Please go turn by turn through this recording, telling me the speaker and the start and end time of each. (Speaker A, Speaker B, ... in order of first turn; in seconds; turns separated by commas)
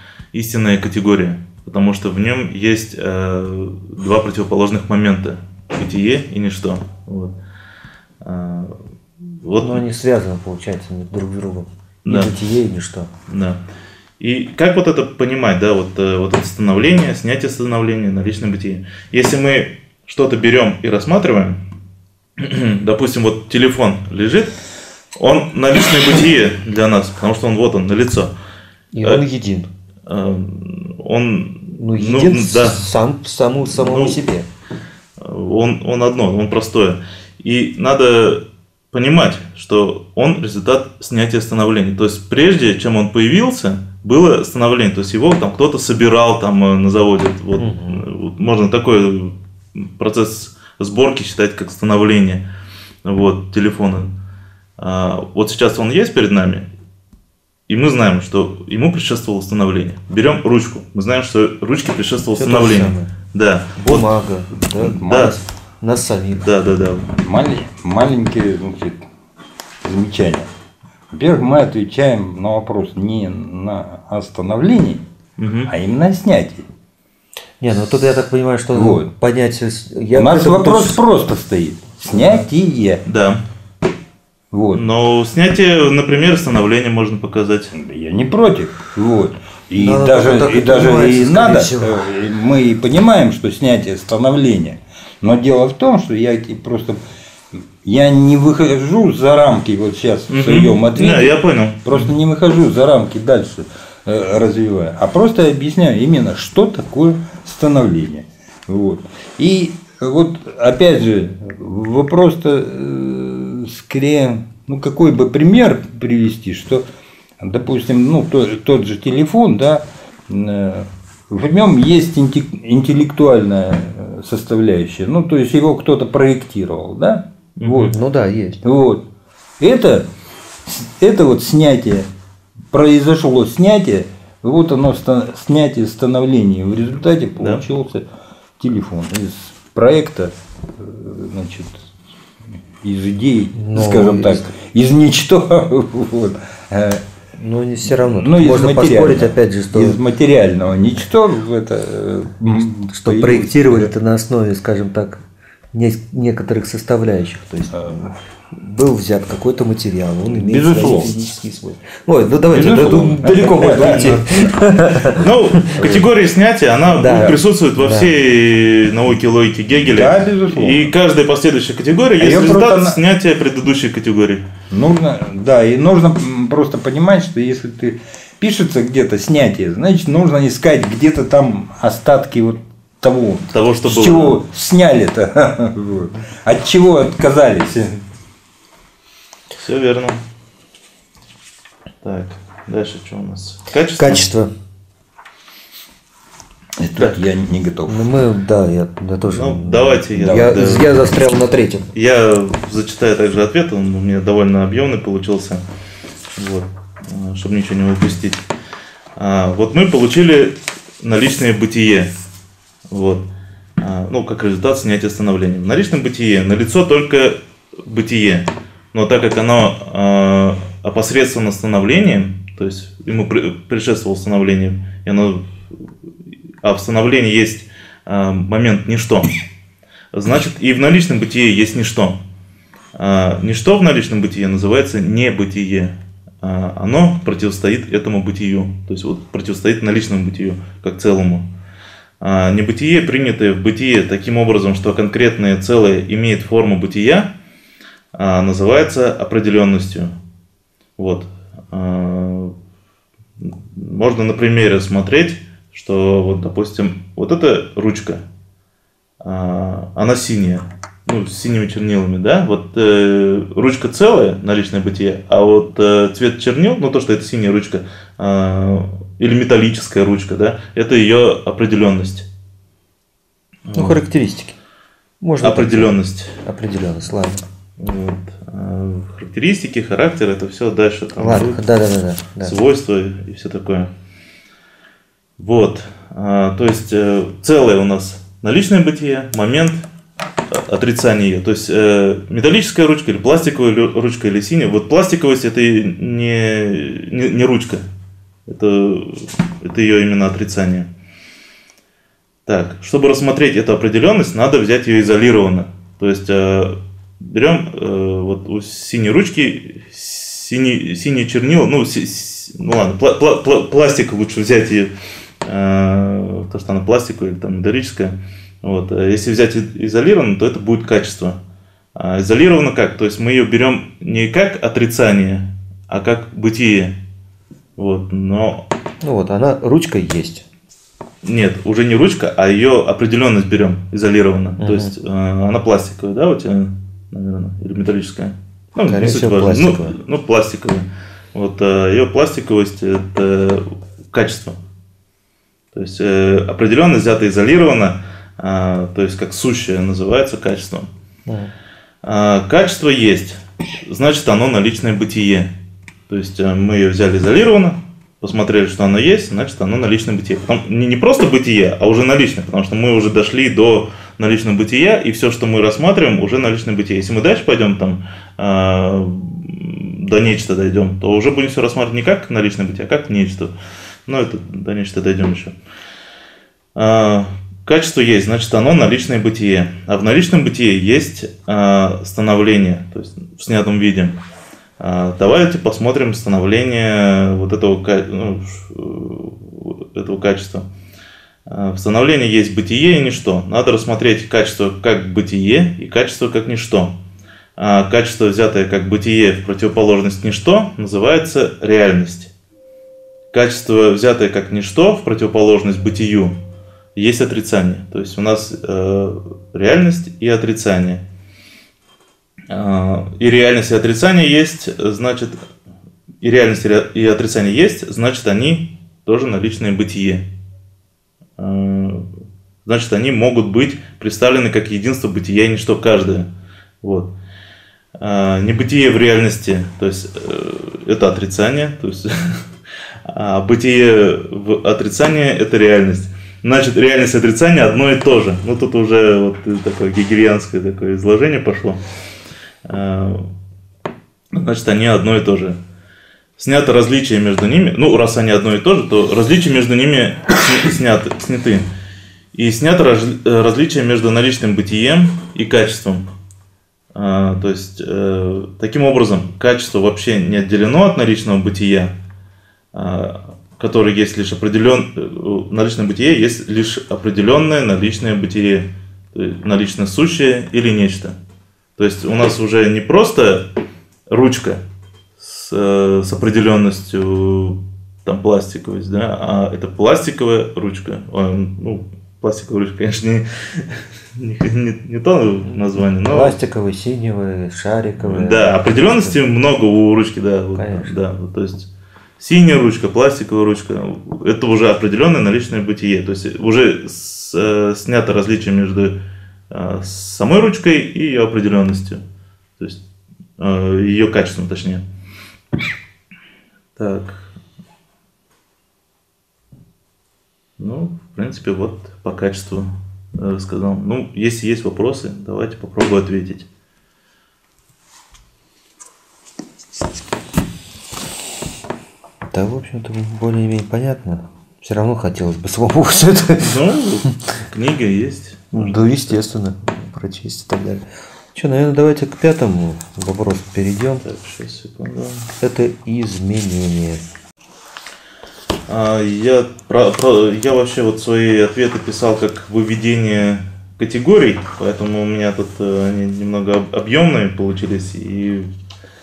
Speaker A: 0.3-7.3, Speaker A: 8.2-8.8, Speaker A: 9.4-9.8, Speaker B: 9.6-13.1, Speaker A: 12.0-12.3, Speaker A: 13.3-13.6, Speaker A: 14.2-21.6, Speaker A: 22.4-24.6, Speaker A: 25.1-28.3, Speaker B: 28.9-29.7, Speaker A: 30.1-32.8, Speaker B: 31.8-34.5, Speaker A: 33.7-34.2, Speaker A: 35.2-52.4, Speaker B: 47.6-48.0, Speaker A: 53.0-54.1, Speaker A: 54.8-56.7, Speaker A: 57.7-64.1, Speaker B: 62.4-63.1, Speaker B: 63.8-66.4, Speaker A: 64.8-65.4, Speaker C: 65.0-65.3, Speaker A: 66.3-67.1, Speaker C: 67.2-69.1, Speaker C: 69.8-70.5, Speaker C: 71.1-75.0, Speaker A: 75.4-75.7, Speaker C: 75.7-76.7, Speaker B: 77.6-81.0, Speaker C: 78.7-79.1, Speaker C: 80.1-83.0, Speaker A: 83.0-83.4, Speaker C: 84.5-84.8, Speaker A: 84.7-87.7, Speaker C: 87.7-97.0, Speaker B: 89.7-92.0, Speaker C: 97.5-116.8, Speaker A: 100.3-102.1, Speaker C: 117.4-127.9, Speaker A: 127.6-128.0, Speaker B: 127.9-128.6, Speaker C: 128.6-129.0, Speaker C: 129.6-130.1, Speaker C: 130.6-132.1, Speaker C: 132.7-138.1, Speaker C: 138.6-141.9, Speaker C: 142.8-147.0, Speaker B: 143.6-144.5, Speaker B: 147.4-150.0, Speaker C: 147.9-153.9, Speaker B: 152.9-165.2, Speaker C: 157.7-158.0, Speaker C: 160.2-161.1, Speaker C: 162.5-164.5, Speaker A: 163.6-164.5, Speaker A: 165.0-174.4, Speaker C: 165.2-166.1, Speaker B: 167.0-168.1, Speaker C: 169.8-170.9, Speaker C: 172.2-173.0, Speaker C: 174.7-188.0, Speaker A: 183.5-184.4, Speaker A: 189.6-190.2, Speaker A: 192.0-194.2, Speaker B: 194.0-194.5, Speaker C: 196.8-198.1, Speaker B: 197.8-201.9, Speaker A: 199.3-200.9, Speaker C: 200.1-200.8, Speaker A: 201.9-205.7, Speaker A: 206.3-208.4, Speaker A: 209.2-212.1, Speaker A: 212.9-213.3, Speaker A: 213.8-225.5, Speaker A: 226.6-229.4, Speaker A: 230.1-232.2, Speaker A: 232.9-241.5, Speaker A: 242.2-247.3, Speaker A: 248.1-250.1, Speaker A: 251.0-252.5, Speaker A: 253.4-258.2, Speaker A: 259.2-272.3, Speaker A: 273.7-274.0, Speaker B: 273.7-274.5, Speaker B: 275.2-277.4, Speaker A: 275.4-276.4, Speaker A: 277.8-281.6, Speaker B: 281.2-282.5, Speaker A: 282.4-283.9, Speaker A: 285.4-289.8, Speaker A: 290.5-297.9, Speaker A: 298.5-300.9, Speaker A: 302.4-321.4, Speaker A: 321.9-327.0, Speaker A: 327.8-328.6, Speaker B: 329.0-330.4, Speaker A: 331.2-344.6, Speaker B: 334.6-334.9, Speaker B: 338.8-339.9, Speaker A: 345.7-350.9, Speaker B: 351.3-351.5, Speaker A: 352.0-355.5, Speaker A: 356.1-373.5, Speaker A: 374.1-375.6, Speaker A: 376.7-384.2, Speaker A: 384.8-390.7, Speaker A: 391.5-396.9, Speaker A: 397.6-402.3, Speaker A: 403.3-406.4, Speaker A: 406.9-411.0, Speaker A: 412.5-415.4, Speaker A: 416.2-420.3, Speaker A: 421.4-422.1, Speaker A: 422.6-426.3, Speaker A: 426.8-427.1, Speaker A: 428.0-432.4, Speaker A: 433.1-441.8, Speaker A: 442.6-443.3, Speaker A: 444.3-445.6, Speaker A: 446.4-451.7, Speaker A: 452.3-456.1, Speaker A: 456.9-461.9, Speaker A: 462.7-471.2, Speaker A: 471.8-473.5, Speaker A: 474.1-474.6, Speaker A: 475.2-486.4, Speaker B: 486.0-489.2, Speaker A: 488.0-491.7, Speaker B: 490.5-490.9, Speaker A: 492.2-499.0, Speaker A: 499.5-502.0, Speaker A: 503.4-504.8, Speaker A: 506.8-507.3, Speaker A: 510.6-516.5, Speaker B: 522.3-526.5, Speaker A: 526.4-529.2, Speaker B: 528.5-534.0, Speaker A: 534.0-535.3, Speaker B: 535.4-537.0, Speaker A: 538.7-548.5